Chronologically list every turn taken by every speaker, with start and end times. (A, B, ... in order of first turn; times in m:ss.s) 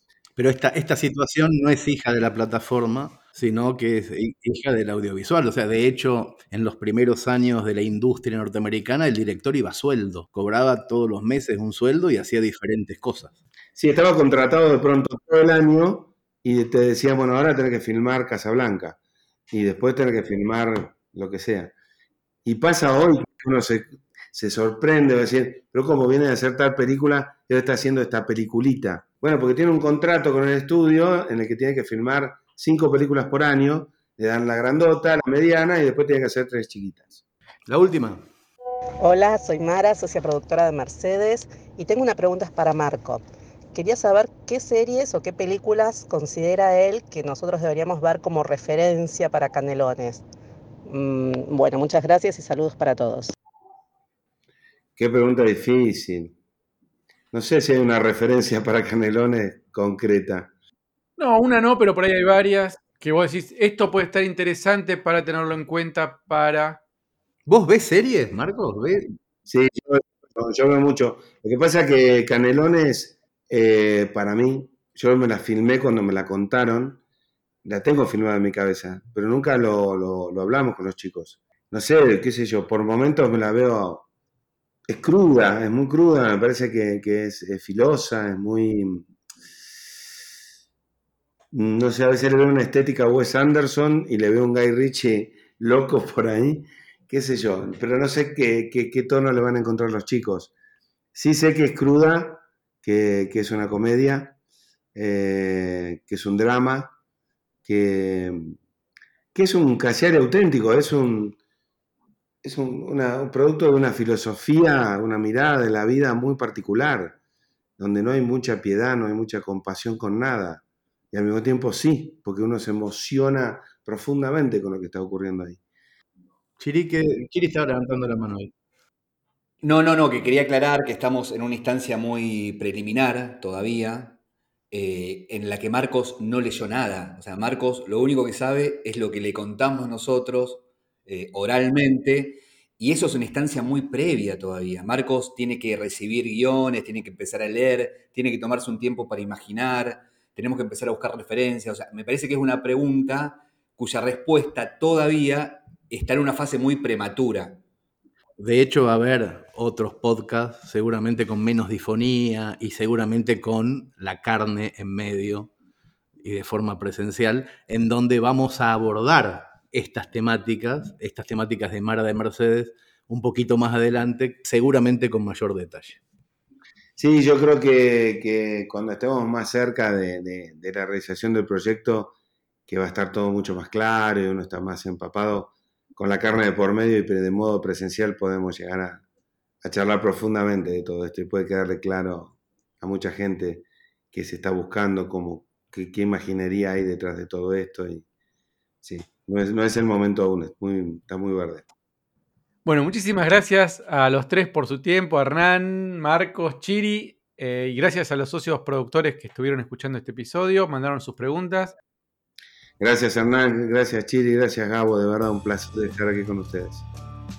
0:00.4-0:13.4 A
0:13.7-0:19.0 B
0:19.5-0:21.7 B
0:22.4-0:37.2 B
0:37.7-0:38.2 A
0:39.0-0:50.2 C
0:50.8-0:53.3 C
0:55.0-0:56.3 B
0:57.3-1:00.5 B
1:01.2-1:06.8 D
1:07.5-1:09.1 A
1:09.4-1:17.0 B
1:17.6-1:24.0 B
1:24.9-1:29.1 B
1:31.5-1:40.5 B
1:41.1-1:44.3 B
1:44.9-1:46.9 B
1:47.6-1:48.6 B
1:49.3-1:51.4 B
1:52.4-1:57.1 B
1:57.8-2:05.6 B
2:06.6-2:08.5 A
2:09.6-2:14.2 E
2:14.7-2:37.6 E
2:38.4-2:45.5 A
2:46.2-2:56.0 A
2:57.0-3:02.1 B
3:02.7-3:09.0 B
3:09.6-3:18.0 B
3:18.8-3:21.6 B
3:22.6-3:31.8 D
3:32.8-3:36.8 B